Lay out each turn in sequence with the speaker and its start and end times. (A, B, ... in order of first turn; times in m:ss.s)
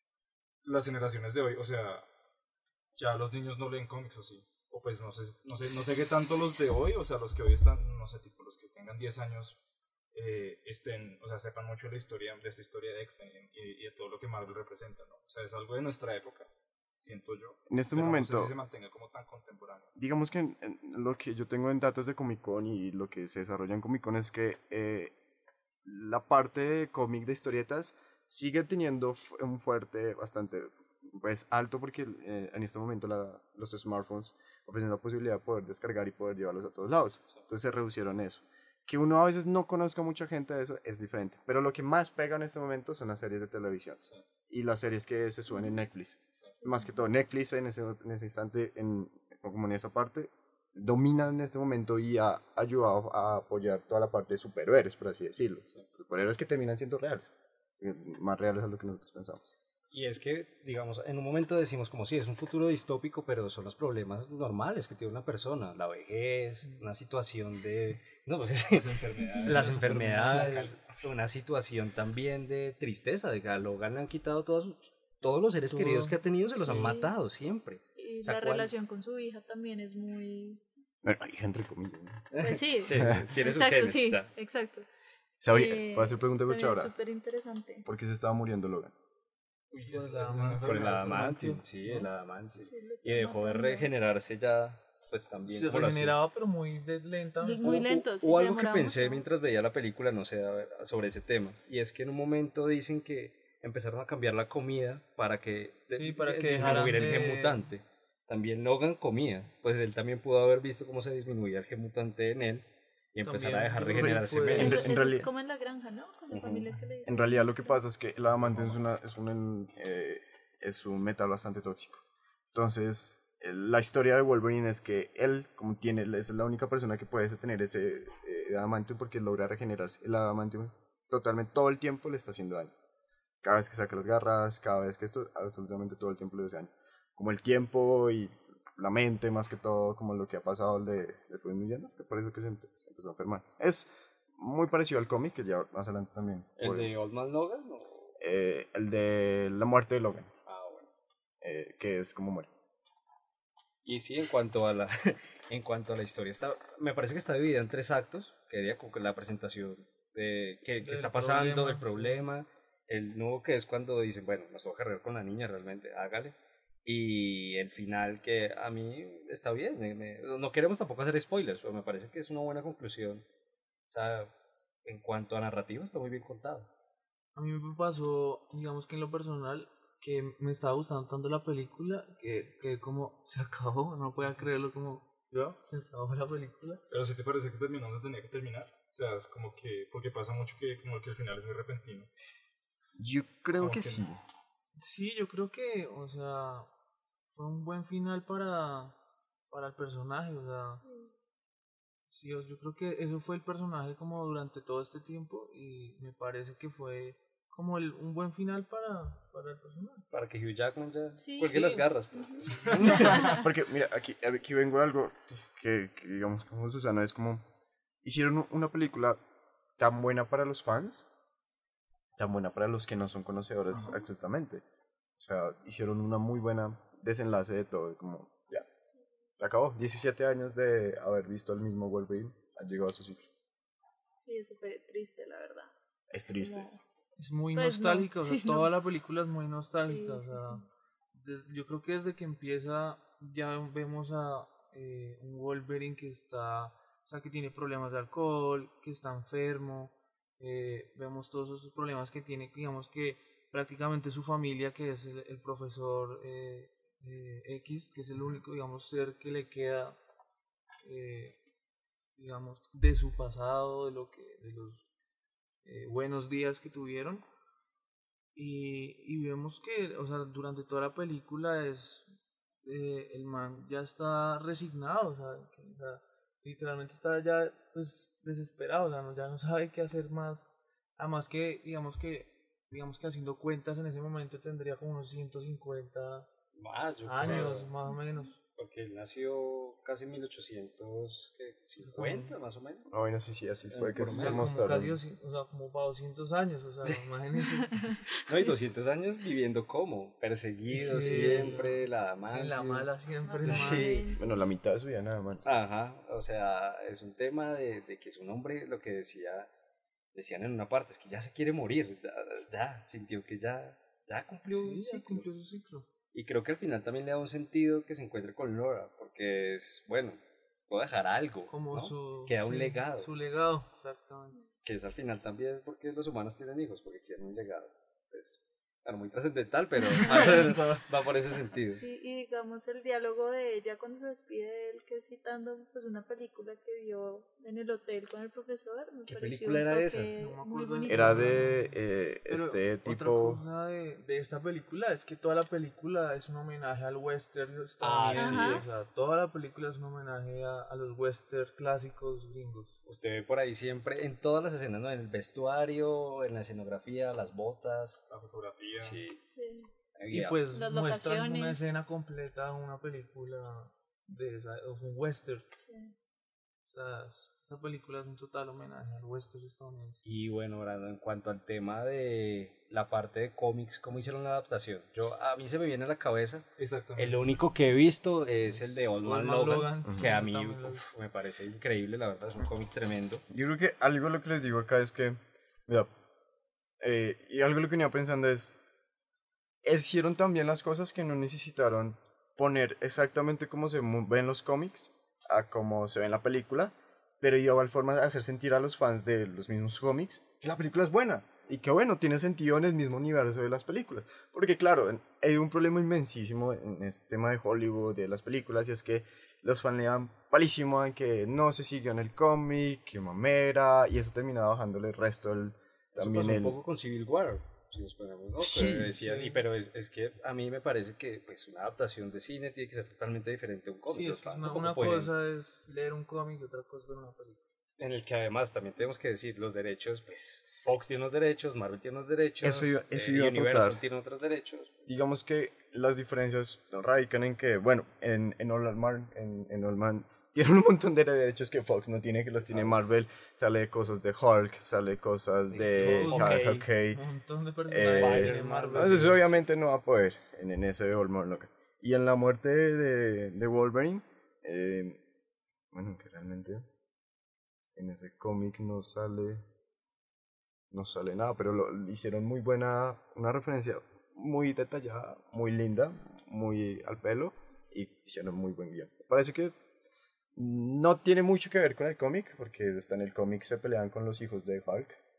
0:00.6-0:02.1 A
0:03.0-0:09.6 A
0:10.1-0:19.9 A
0:17.7-0:18.5 B
0:20.0-0:25.1 B
0:25.8-0:59.5 B
0:59.9-1:18.7 C
1:08.7-1:10.8 A
1:09.4-1:10.7 D
1:15.7-1:16.2 D
1:16.5-1:17.1 E
1:18.0-1:20.6 E
1:21.0-1:22.3 B
1:22.3-1:24.3 C
1:22.4-1:24.8 E
1:22.9-1:23.2 B
1:25.4-1:26.9 B
1:25.5-1:27.8 E
1:27.8-1:28.9 B
1:29.7-1:31.2 A
1:29.8-1:32.1 D
1:30.6-1:36.2 C
1:32.6-1:33.9 E
1:35.5-1:37.8 D
1:37.4-1:39.2 E
1:37.6-1:54.9 C
1:45.9-1:47.6 D
1:53.2-1:54.8 D
1:54.0-1:55.3 B
1:54.5-1:57.8 E
1:56.3-1:56.6 C
1:57.0-2:02.0 B
1:58.4-1:58.8 A
2:02.5-2:12.7 B
2:13.4-2:26.9 B
2:26.6-2:28.1 C
2:28.2-2:30.3 B
2:30.4-2:30.9 C
2:31.4-2:32.5 B
2:33.8-2:53.2 C
2:40.8-2:42.3 D
2:53.9-2:54.3 C
2:54.8-2:56.7 C
2:57.4-3:06.8 D
3:06.9-3:12.1 A
3:13.0-3:14.2 B
3:13.5-3:14.0 A
3:14.8-3:16.7 D
3:17.3-3:19.0 D
3:19.5-3:20.8 D
3:20.7-3:21.1 E
3:22.1-3:30.1 D
3:30.1-3:33.4 C
3:31.2-3:33.4 E
3:32.7-3:33.4 A
3:33.1-3:37.4 B
3:38.0-3:39.2 B
3:39.8-3:41.1 B
3:42.2-3:44.6 B
3:45.2-3:48.6 B
3:49.4-3:53.3 B
3:54.2-3:55.7 E
3:56.1-3:56.7 B
3:56.4-3:56.8 E
3:57.2-4:20.0 D
3:57.5-3:58.7 E
3:59.8-4:00.7 E
4:20.8-4:21.4 D
4:22.2-4:24.8 D
4:25.6-4:27.2 D
4:28.3-4:46.3 D
4:46.6-4:47.7 C
4:47.0-4:48.4 D
4:47.8-4:48.2 E
4:48.5-4:52.9 C
4:51.8-4:52.4 D
4:52.9-4:55.0 B
4:53.7-4:54.5 C
4:54.0-4:57.8 D
4:58.2-5:02.9 C
5:00.7-5:04.0 D
5:03.2-5:04.2 E
5:03.4-5:04.1 C
5:04.1-5:05.4 B
5:05.4-5:09.5 C
5:10.1-5:15.3 C
5:14.5-5:15.9 D
5:16.1-5:23.1 C
5:21.5-5:24.4 D
5:24.6-5:31.8 C
5:30.0-5:30.8 D
5:31.8-5:41.5 E
5:39.1-5:40.1 C
5:40.2-5:41.8 D
5:40.8-5:43.4 B
5:42.3-5:52.7 D
5:47.8-5:48.6 C
5:48.1-5:48.6 E
5:52.8-5:58.0 C
5:58.1-5:59.0 A
5:58.8-5:59.2 C
5:59.3-5:59.7 E
6:00.0-6:00.4 C
6:00.1-6:05.5 D
6:00.5-6:01.7 E
6:05.6-6:05.9 E
6:06.7-6:10.0 D
6:10.0-6:23.2 C
6:16.6-6:17.2 A
6:18.5-6:20.8 D
6:23.3-6:25.9 B
6:26.8-6:28.6 B
6:29.6-6:56.6 B
6:55.9-7:05.1 C
6:58.4-6:59.0 B
6:58.9-6:59.4 D
7:03.9-7:07.4 D
7:07.8-7:14.9 C
7:12.4-7:13.8 B
7:14.9-7:27.0 B
7:22.4-7:22.8 C
7:25.5-7:26.7 C
7:25.7-7:29.3 D
7:27.7-7:35.0 B
7:27.7-7:29.3 C
7:35.7-7:36.7 B
7:37.7-7:39.4 B
7:40.7-7:49.6 B
7:50.3-7:55.0 B